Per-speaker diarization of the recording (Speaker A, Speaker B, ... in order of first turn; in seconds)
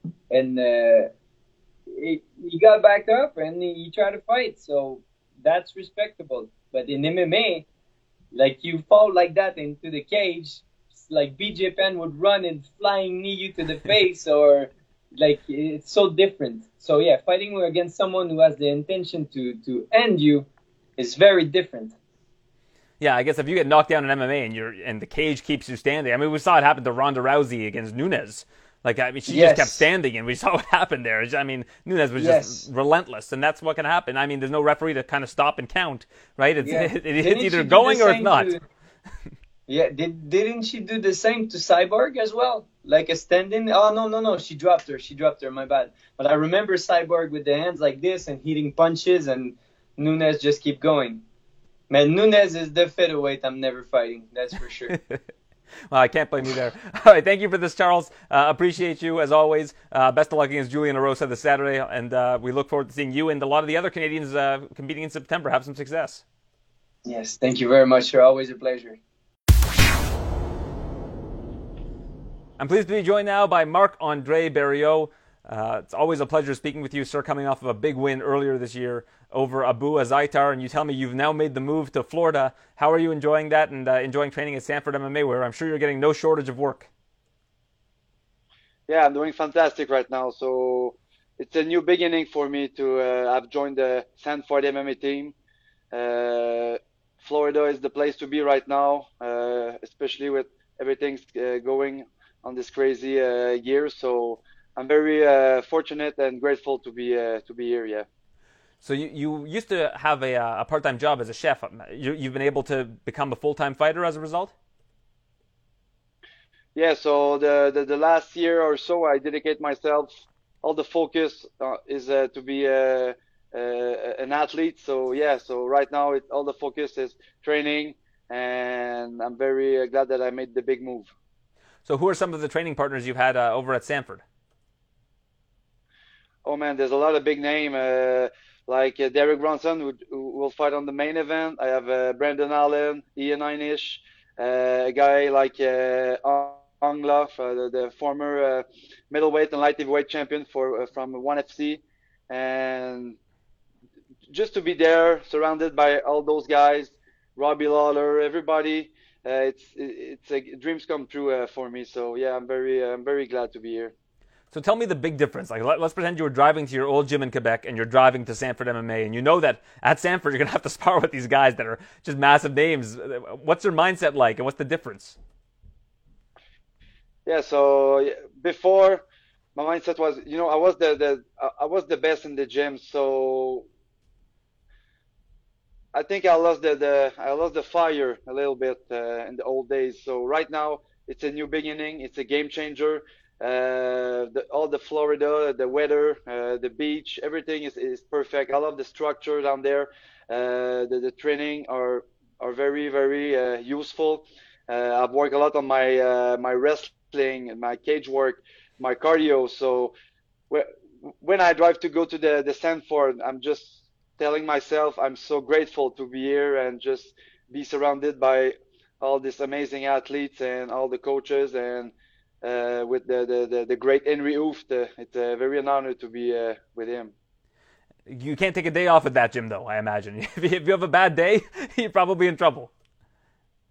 Speaker A: 0.3-1.1, 1.9-7.7, 8.3-21.9, 29.3-29.9, 32.2-32.6, 36.6-38.6, 39.7-51.2, 51.9-54.9, 67.0-69.0
Speaker B: 23.0-38.5, 55.9-66.2, 72.6-86.9, 108.8-114.5, 131.9-134.2, 164.5-175.2, 228.1-232.7
Speaker C: 88.9-95.3, 95.9-108.0, 116.7-131.1, 136.4-153.2, 154.3-163.9, 177.2-179.0, 179.6-183.6, 185.9-209.9, 211.2-227.1